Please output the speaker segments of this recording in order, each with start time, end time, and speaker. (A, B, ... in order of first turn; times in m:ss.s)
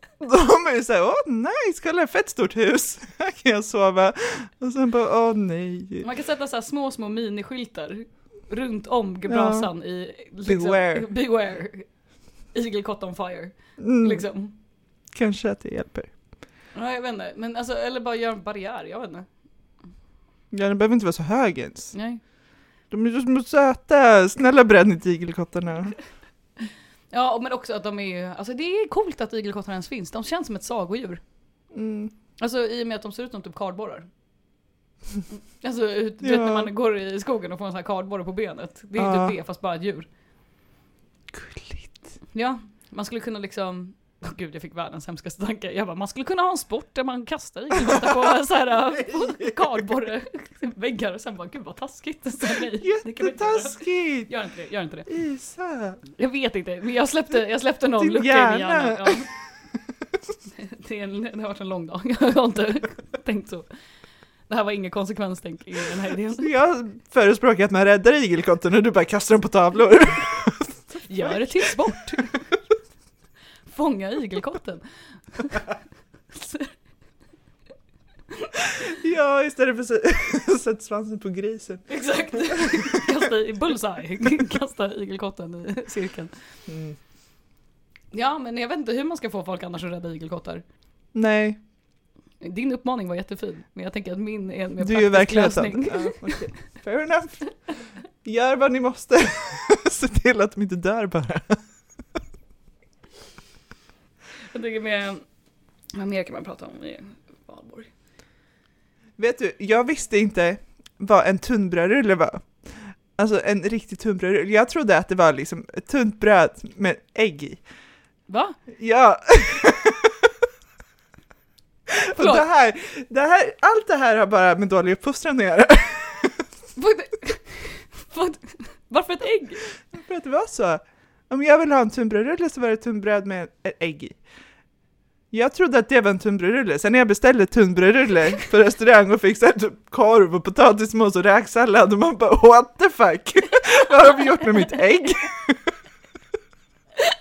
0:00.2-0:06.0 A
0:06.0-0:11.9 B
0:09.3-0:09.7 A
0:10.4-0:11.1 A
0:12.5-0:14.5 B
0:13.8-0:14.2 A
0:15.1-0:16.1 A
0:16.7-0:19.2 B
0:20.5-0:22.0 A
0:21.9-0:22.2 B
0:22.9-0:26.0 A
0:27.1-0:31.2 B
0:31.7-0:32.1 A
0:32.4-0:34.1 B
0:35.6-0:40.1 B
0:36.2-0:36.7 A
0:39.0-0:39.3 A
0:41.3-0:42.2 A
0:42.3-0:55.1 B
0:47.7-0:48.1 A
0:49.1-0:49.5 A
0:52.8-0:54.3 A
0:55.1-0:56.0 A
0:56.0-0:59.3 B
0:58.0-0:59.3 A
1:00.5-1:03.6 B
1:04.5-1:06.5 B
1:06.4-1:11.7 A
1:11.0-1:12.4 B
1:13.7-1:14.8 B
1:15.3-1:15.7 B
1:16.3-1:16.7 B
1:18.8-1:22.8 A
1:21.9-1:26.3 B
1:26.7-1:27.0 A
1:28.1-1:30.6 B
1:31.1-1:31.6 A
1:32.4-1:36.6 B
1:34.8-1:37.6 A
1:38.2-1:41.6 A
1:44.5-1:45.2 B
1:45.9-1:47.9 B
1:49.2-1:57.6 A
1:58.3-1:58.6 B
1:58.8-2:00.1 A
2:01.9-2:06.4 A
2:02.2-2:02.4 B
2:06.8-2:09.7 B
2:09.9-2:14.2 A
2:15.3-2:25.7 A